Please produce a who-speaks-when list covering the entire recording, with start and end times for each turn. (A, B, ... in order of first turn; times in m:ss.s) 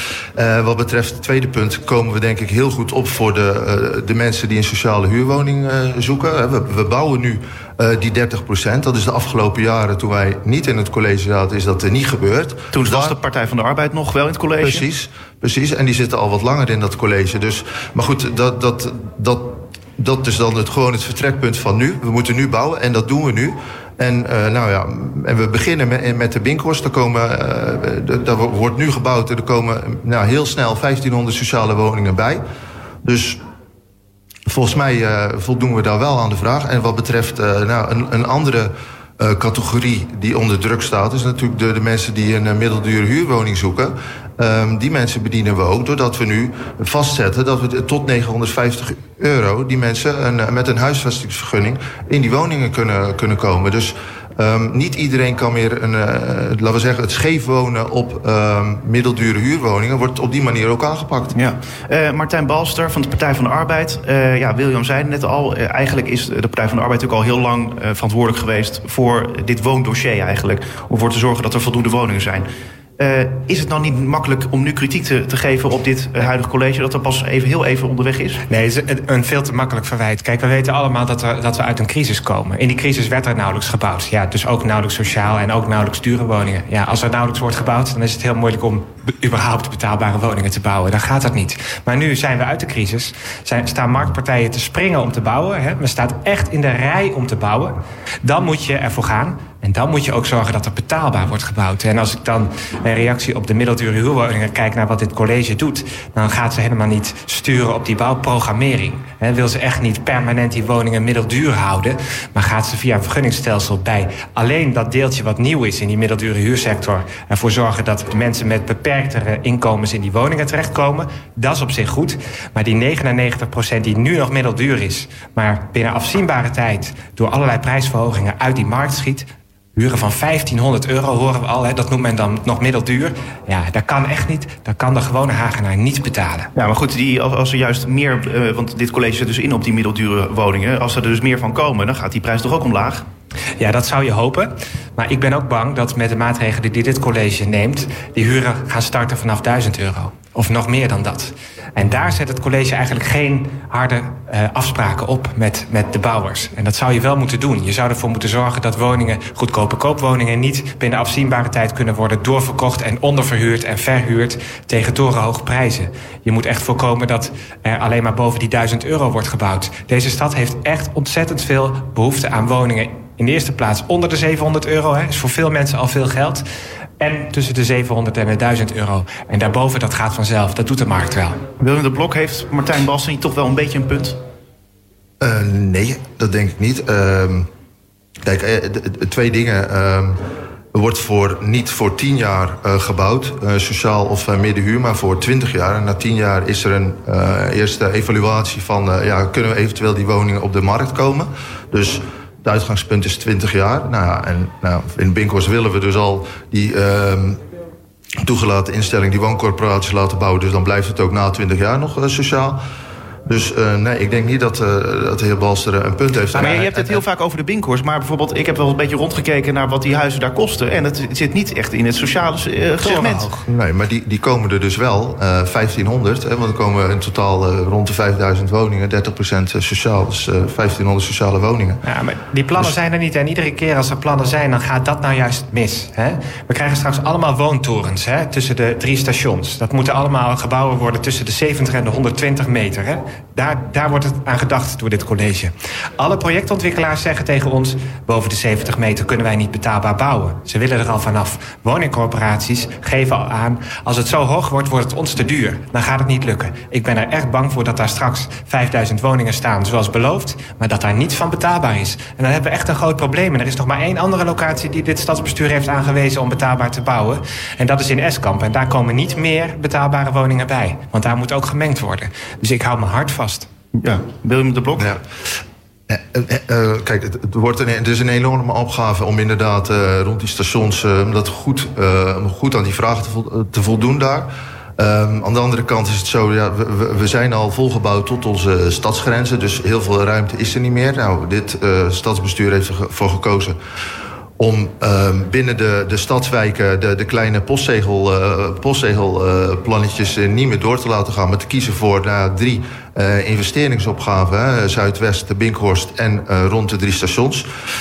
0:00.3-0:13.2 A
0:12.7-0:14.8 B
0:14.6-0:32.4 A
0:33.0-0:33.4 A
0:34.5-1:01.3 A
1:01.3-1:18.4 B
1:18.5-2:16.5 C
2:16.6-2:23.0 B
2:23.6-2:56.4 C
2:57.0-3:01.4 C
3:01.6-3:04.2 B
3:05.2-3:07.5 A
3:08.2-3:10.2 A
3:10.7-3:27.4 A
3:28.2-3:32.6 A
3:33.2-3:37.0 A
3:36.4-3:36.6 C
3:36.4-3:43.3 B
3:42.8-3:43.4 C
3:43.5-3:51.8 A
3:51.8-4:33.5 C
4:33.8-4:35.0 B
4:35.9-4:53.6 A
4:54.4-5:07.5 A